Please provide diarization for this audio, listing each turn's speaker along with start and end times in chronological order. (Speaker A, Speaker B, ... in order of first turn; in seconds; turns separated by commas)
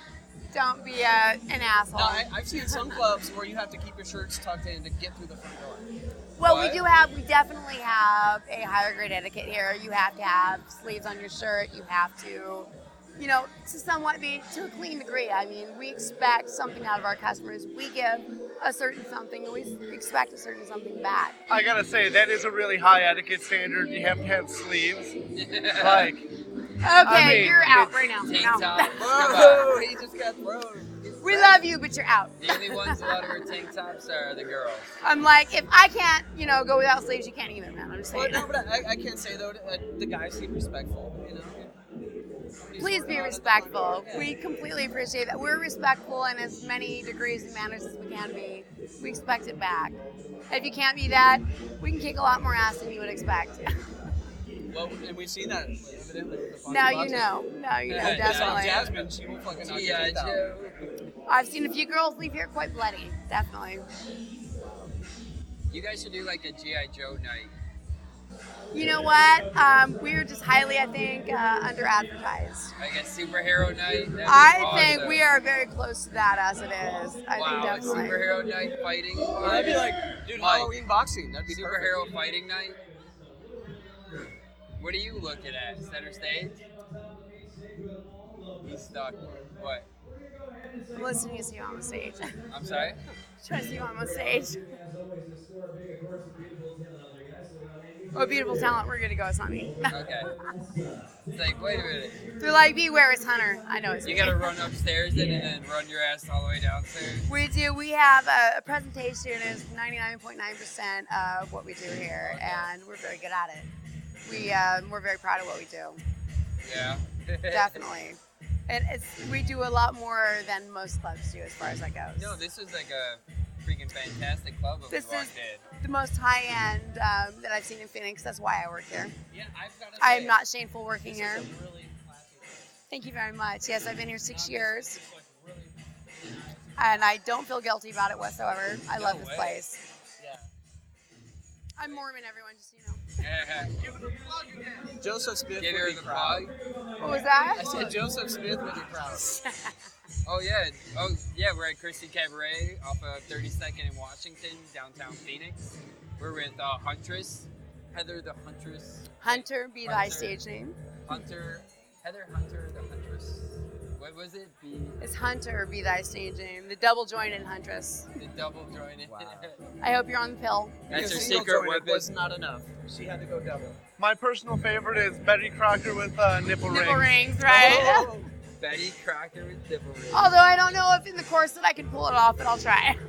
Speaker A: 0.5-2.8, Speaker B: 1.9-5.9, Speaker A: 6.4-21.4, Speaker C: 6.4-6.8, Speaker D: 21.5-25.1, Speaker C: 25.3-26.1, Speaker D: 25.8-26.3, Speaker A: 26.8-28.9, Speaker D: 27.0-28.0, Speaker C: 28.2-29.8, Speaker B: 29.0-31.6, Speaker A: 31.2-33.4, Speaker C: 32.4-34.9, Speaker A: 35.0-38.5, Speaker B: 38.1-41.7, Speaker B: 42.6-44.3, Speaker A: 42.8-50.0, Speaker A: 50.5-53.7, Speaker B: 54.7-57.3, Speaker A: 56.7-58.9, Speaker C: 57.9-60.9, Speaker B: 58.0-60.4, Speaker A: 61.3-63.9, Speaker C: 65.7-67.5, Speaker A: 68.7-72.7, Speaker C: 72.8-75.2, Speaker A: 74.3-78.2, Speaker C: 77.3-80.7, Speaker B: 79.4-82.0, Speaker C: 81.5-82.8, Speaker C: 84.8-86.6, Speaker C: 88.6-89.9, Speaker A: 90.9-92.3, Speaker C: 92.5-93.0, Speaker A: 93.4-94.6, Speaker A: 98.1-100.0, Speaker C: 99.9-100.3, Speaker C: 101.3-102.2, Speaker A: 102.4-104.5, Speaker C: 104.0-107.3, Speaker A: 107.3-113.7, Speaker C: 112.2-112.7, Speaker A: 114.2-116.0, Speaker C: 116.6-117.9, Speaker A: 117.5-122.3, Speaker C: 122.1-125.6, Speaker A: 124.9-129.1, Speaker B: 129.3-130.4, Speaker A: 130.0-131.5, Speaker B: 131.1-132.7, Speaker A: 132.9-135.0, Speaker B: 134.3-137.1, Speaker A: 136.8-139.8, Speaker C: 138.9-139.6, Speaker B: 140.2-140.5, Speaker A: 141.8-143.1, Speaker C: 143.2-143.7, Speaker B: 143.8-146.5, Speaker C: 145.6-146.5, Speaker A: 147.0-147.9, Speaker B: 147.6-149.3, Speaker A: 149.3-149.7, Speaker C: 150.2-160.4, Speaker A: 159.2-160.8, Speaker C: 161.1-165.0, Speaker A: 165.0-168.1, Speaker C: 168.2-169.6, Speaker B: 169.1-169.5, Speaker A: 169.8-170.8, Speaker C: 170.9-172.1, Speaker B: 170.9-173.8, Speaker D: 174.0-177.9, Speaker A: 176.7-178.1, Speaker B: 177.4-178.3, Speaker C: 178.6-180.5, Speaker A: 180.1-183.0